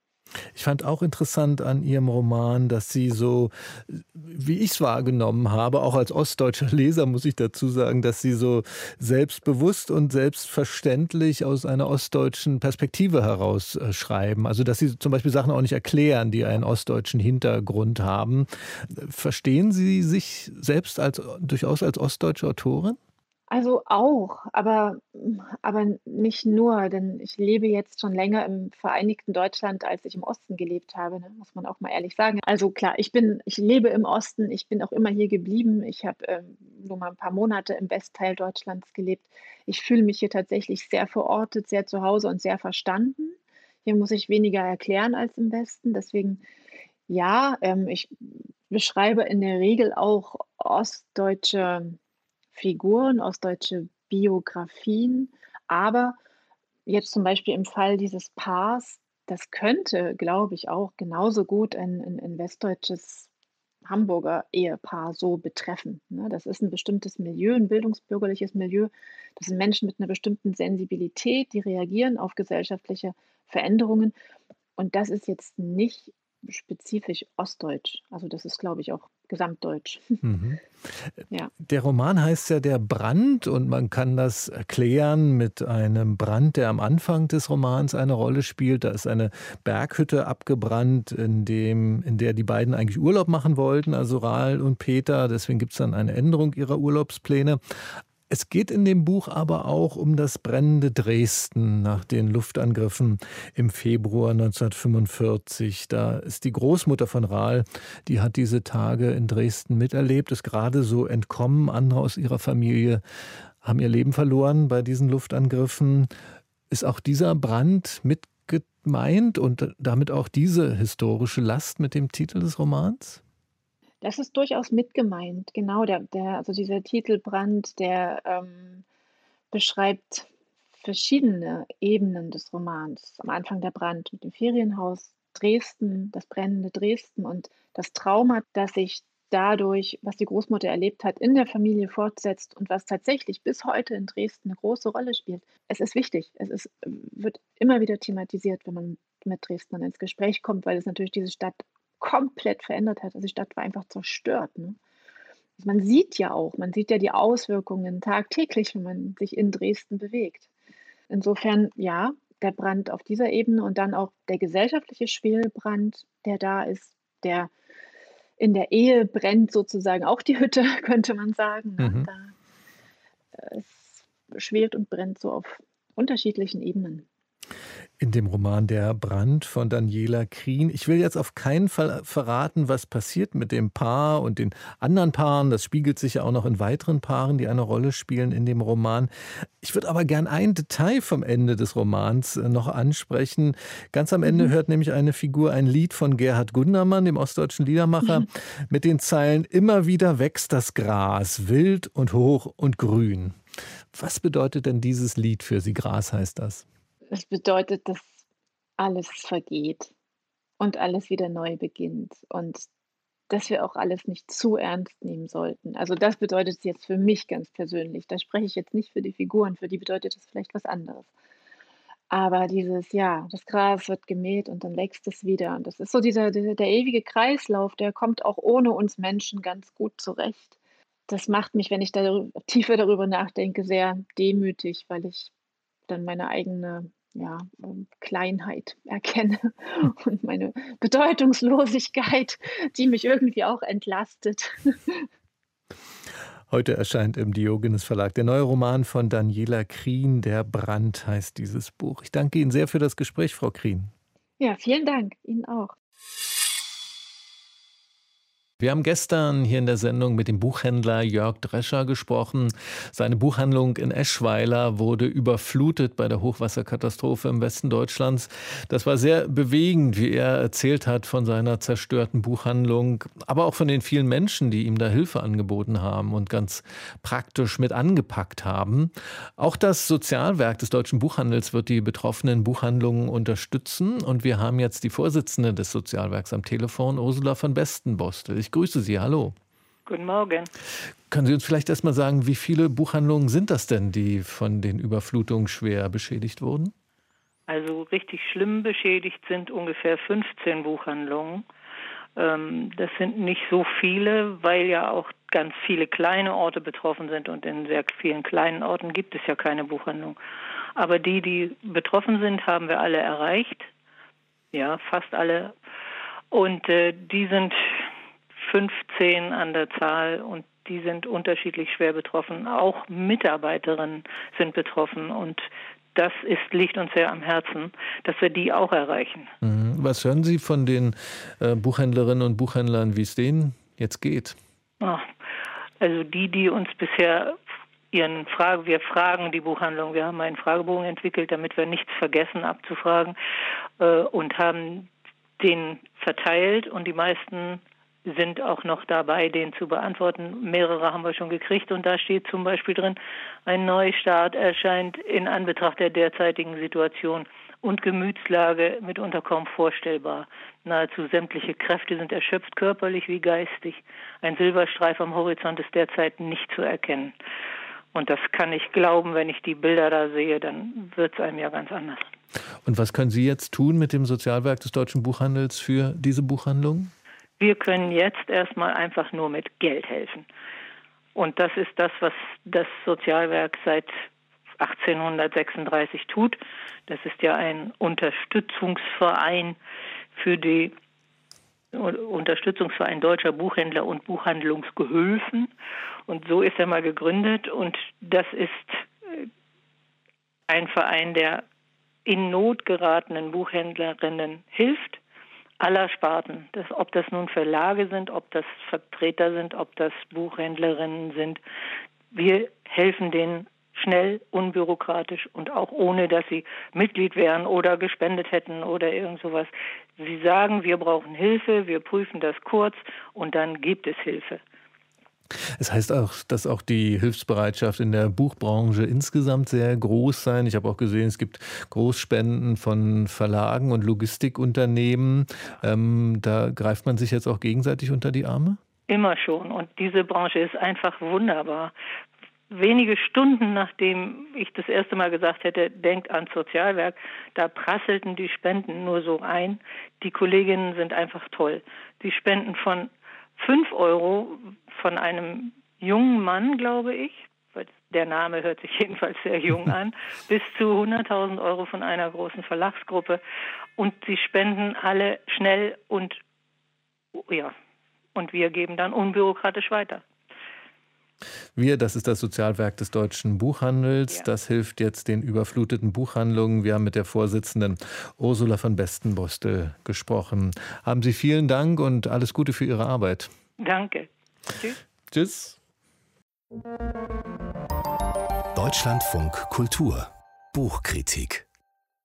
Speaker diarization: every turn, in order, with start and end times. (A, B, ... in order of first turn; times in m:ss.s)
0:00.6-0:23.0 A
0:23.5-0:46.4 B
0:47.1-0:52.0 B
0:52.5-0:56.2 B
0:56.9-1:03.3 B
1:03.8-1:14.1 B
1:14.8-1:20.2 B
1:20.2-1:20.6 A
1:21.6-1:37.6 A
1:38.3-1:53.0 A
1:53.6-1:56.1 A
1:56.7-2:03.2 A
2:04.0-2:08.8 B
2:09.5-2:10.3 B
2:10.8-2:34.8 B
2:35.6-2:40.5 B
2:41.1-2:47.5 B
2:48.4-2:52.3 B
2:51.8-2:52.1 A
2:53.4-2:57.1 B
2:58.0-3:23.4 A
3:23.9-3:26.6 A
3:27.1-3:28.2 B
3:28.8-3:29.9 B
3:30.6-3:32.7 B
3:33.3-3:41.1 B
3:42.1-3:50.6 B
3:51.1-3:55.3 B
3:55.9-4:05.1 B
4:06.5-4:13.9 A
4:14.4-4:15.7 B
4:18.6-4:49.4 A
4:49.9-4:50.5 C
4:51.1-4:56.7 A
4:57.5-5:01.5 C
5:02.2-5:10.2 C
5:10.8-5:13.7 C
5:14.5-5:15.5 C
5:16.3-5:17.8 C
5:18.4-5:29.3 C
5:29.4-5:34.4 A
5:34.8-5:35.1 C
5:35.8-5:37.4 C
5:37.9-5:43.2 C
5:43.8-5:44.9 C
5:45.4-6:07.1 C
6:07.9-6:12.1 C
6:12.6-6:16.9 A
6:17.4-6:20.3 C
6:21.2-6:23.9 C
6:24.6-6:29.6 C
6:30.2-6:30.7 C
6:31.7-6:35.5 C
6:36.1-6:39.3 C
6:40.5-6:41.4 C
6:42.0-6:45.0 C
6:45.6-6:51.4 C
6:52.1-7:04.4 C
7:05.6-7:18.6 A
7:18.9-7:21.7 C
7:22.5-7:43.2 C
7:43.8-7:46.2 C
7:47.2-7:47.6 C
7:48.2-7:50.0 C
7:51.6-8:03.3 A
8:03.6-8:04.8 C
8:05.1-8:05.6 A
8:08.5-8:11.5 D